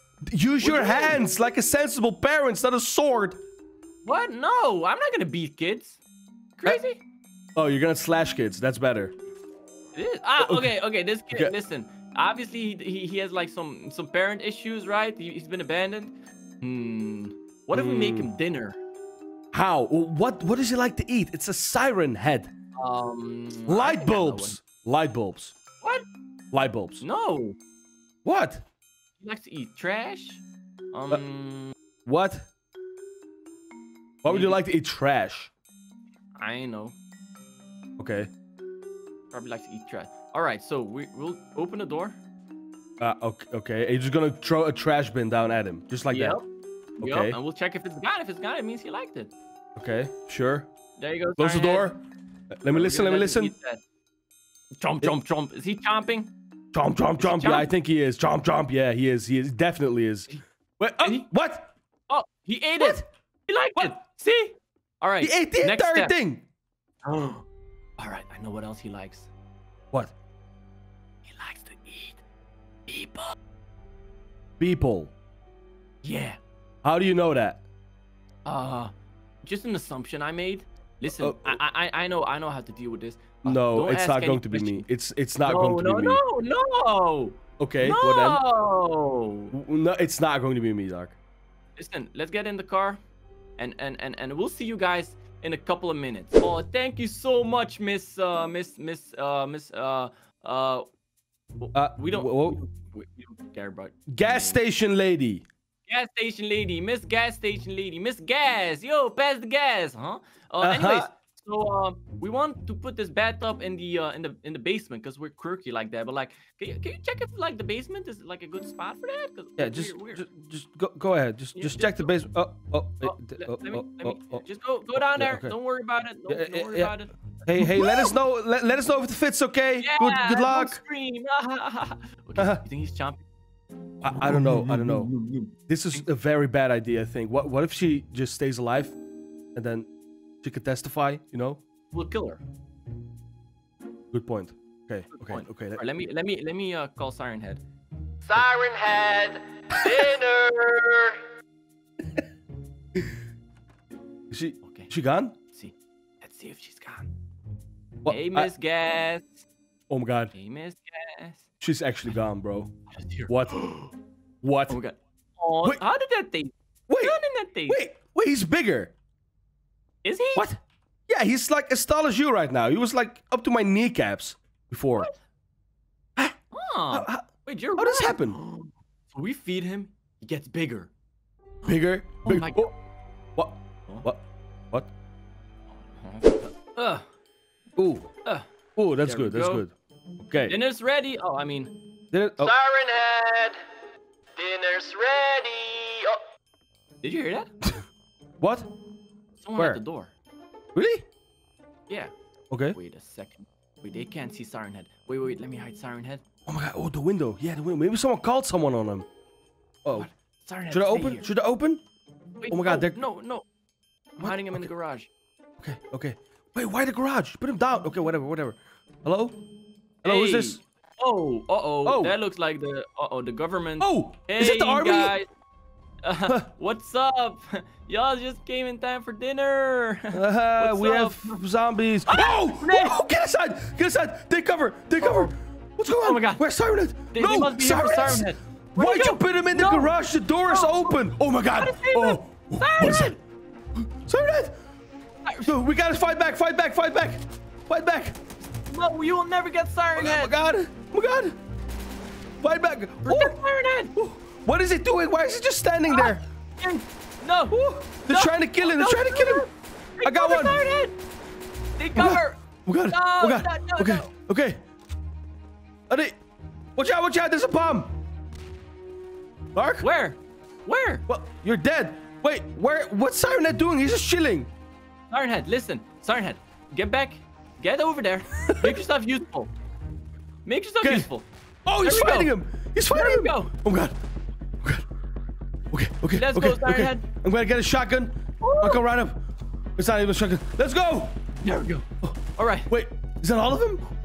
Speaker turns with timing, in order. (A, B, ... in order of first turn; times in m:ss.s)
0:00.3-0:03.4 A
0:00.6-0:01.2 B
0:04.0-0:06.0 B
0:06.6-0:07.0 B
0:07.6-0:09.1 A
0:10.0-0:18.8 B
0:10.4-0:10.7 A
0:17.7-0:18.3 A
0:19.5-0:22.5 A
0:22.8-0:24.6 B
0:23.7-0:25.6 A
0:26.5-0:27.0 A
0:27.0-0:27.6 B
0:28.2-0:28.6 A
0:29.2-0:30.4 B
0:30.9-0:31.8 B
0:32.0-0:32.5 A
0:34.2-0:35.5 A
0:34.2-0:34.6 B
0:36.4-0:37.0 B
0:38.0-0:38.3 A
0:39.3-0:42.2 B
0:43.0-0:46.4 A
0:46.1-0:46.5 B
0:47.0-0:49.3 B
0:47.0-0:47.4 A
0:49.8-0:50.7 A
0:51.0-0:51.9 B
0:51.4-0:52.0 A
0:52.5-0:53.5 A
0:52.7-0:53.8 B
0:54.8-0:56.3 B
0:56.7-1:01.7 A
0:57.2-0:57.7 B
1:01.0-1:01.3 B
1:02.1-1:06.1 B
1:05.2-1:06.4 A
1:07.0-1:07.4 B
1:08.0-1:09.3 B
1:11.2-1:12.2 B
1:12.9-1:13.4 B
1:14.6-1:15.1 A
1:16.0-1:16.4 B
1:16.8-1:17.6 A
1:18.5-1:18.9 B
1:19.4-1:24.9 B
1:21.1-1:21.6 A
1:23.4-1:26.2 A
1:25.4-1:29.5 B
1:27.6-1:28.4 A
1:29.5-1:31.2 A
1:31.8-1:33.0 B
1:33.6-1:40.8 B
1:41.6-1:44.6 B
1:41.7-1:42.6 A
1:44.1-1:45.4 A
1:45.9-2:00.2 B
1:50.6-1:51.1 A
1:59.6-2:04.4 A
2:01.6-2:02.2 B
2:03.0-2:08.1 B
2:05.1-2:05.6 A
2:06.3-2:10.8 A
2:09.8-2:13.2 B
2:12.4-2:12.6 A
2:14.0-2:15.1 A
2:14.3-2:16.0 B
2:15.7-2:19.0 A
2:19.6-2:19.9 A
2:20.4-2:21.6 A
2:21.9-2:22.4 B
2:24.1-2:25.8 A
2:25.1-2:27.6 B
2:28.3-2:31.2 C
2:34.3-2:35.4 A
2:34.6-2:34.9 B
2:35.5-2:37.1 B
2:38.0-2:38.5 A
2:38.1-2:39.5 B
2:39.9-2:40.3 A
2:40.3-2:41.4 B
2:41.6-2:42.7 A
2:42.9-2:43.9 B
2:43.3-2:43.7 A
2:44.4-2:44.8 A
2:44.7-2:47.8 B
2:46.9-2:48.9 A
2:50.0-2:50.5 B
2:50.4-2:55.1 A
2:56.5-3:00.9 B
2:56.9-2:57.3 A
2:57.8-2:58.4 A
3:01.6-3:02.7 A
3:02.2-3:02.7 B
3:03.4-3:04.9 A
3:05.8-3:07.1 B
3:07.8-3:08.1 A
3:08.8-3:10.6 A
3:09.0-3:09.6 B
3:10.4-3:11.8 B
3:12.1-3:12.6 A
3:12.4-3:13.6 C
3:14.4-3:16.2 C
3:17.0-3:17.5 B
3:18.4-3:18.7 A
3:19.4-3:20.1 B
3:19.6-3:19.8 A
3:20.7-3:21.0 A
3:22.5-3:22.8 A
3:22.7-3:26.2 B
3:26.5-3:29.1 A
3:30.0-3:31.3 B
3:30.7-3:31.8 A
3:32.4-3:33.4 B
3:32.5-3:33.0 A
3:34.2-3:35.1 B
3:34.2-3:34.7 A
3:35.6-3:39.4 A
3:40.0-3:40.6 A
3:40.0-3:45.3 B
3:41.8-3:42.2 A
3:43.8-3:45.2 A
3:46.0-3:51.4 B
3:50.1-4:03.2 A
3:52.1-3:53.0 B
3:55.0-3:55.3 B
3:56.0-3:56.4 B
3:57.1-3:59.9 B
4:00.5-4:01.0 B
4:01.6-4:03.2 B
4:03.8-4:04.6 A
4:05.2-4:05.5 B
4:05.4-4:08.2 A
4:08.7-4:10.4 B
4:10.0-4:11.4 A
4:12.4-4:13.4 A
4:13.0-4:13.9 B
4:13.9-4:16.2 A
4:15.4-4:17.6 B
4:17.5-4:19.4 A
4:18.1-4:21.0 B
4:20.0-4:20.7 A
4:21.8-4:24.1 B
4:22.0-4:24.6 A
4:25.9-4:26.2 A
4:26.8-4:27.9 A
4:29.5-4:29.9 A
4:29.8-4:31.0 B
4:31.1-4:34.5 A
4:35.1-4:39.5 B
4:38.4-4:38.8 A
4:40.4-4:41.3 B
4:40.8-4:41.1 A
4:41.7-4:44.0 A
4:41.8-4:43.5 B
4:45.7-4:49.2 A
4:46.1-4:47.0 B
4:48.4-4:48.8 B
4:49.8-4:51.1 A
4:51.4-4:51.9 B
4:52.0-4:53.8 A
4:52.4-4:52.7 B